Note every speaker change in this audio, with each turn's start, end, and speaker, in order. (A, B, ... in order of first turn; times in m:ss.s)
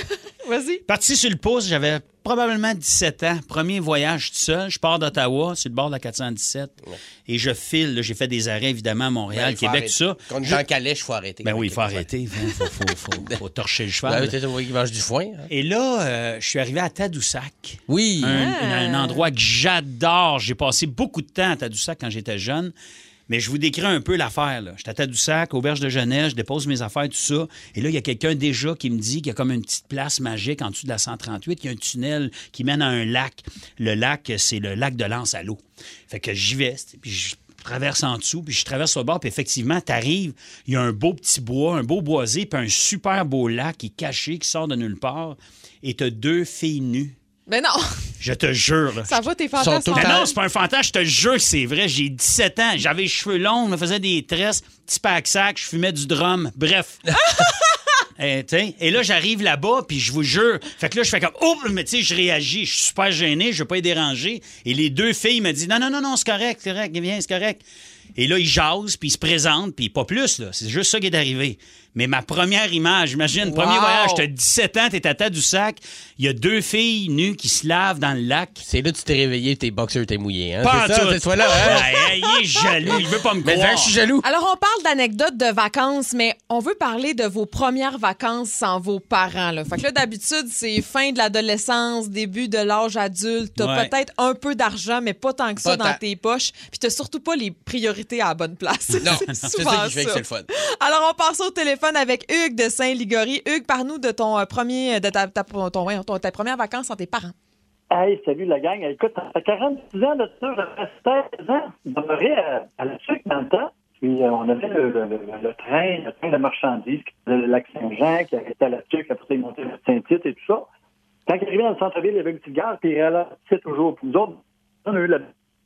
0:00.4-0:00.8 A
0:00.9-0:06.8 B
0:07.3-0:10.6 B
0:09.3-0:12.0 C
0:11.4-0:14.3 B
0:14.0-0:15.5 C
0:15.5-0:22.7 B
0:17.9-0:18.3 C
0:18.3-0:19.2 A
0:23.3-0:47.1 B
0:47.5-0:47.8 A
0:48.2-0:49.2 B
0:49.0-0:50.3 A
0:49.6-0:50.3 C
0:49.9-0:57.2 B
0:58.2-1:07.6 B
1:08.2-1:18.6 B
1:13.4-1:14.2 A
1:18.6-1:22.1 C
1:20.6-1:23.9 B
1:22.8-1:24.2 C
1:24.2-1:47.3 A
1:33.6-1:33.9 B
1:35.6-1:36.0 C
1:39.0-1:39.4 B
1:39.0-1:40.4 C
1:47.9-2:00.6 D
2:01.3-2:05.3 D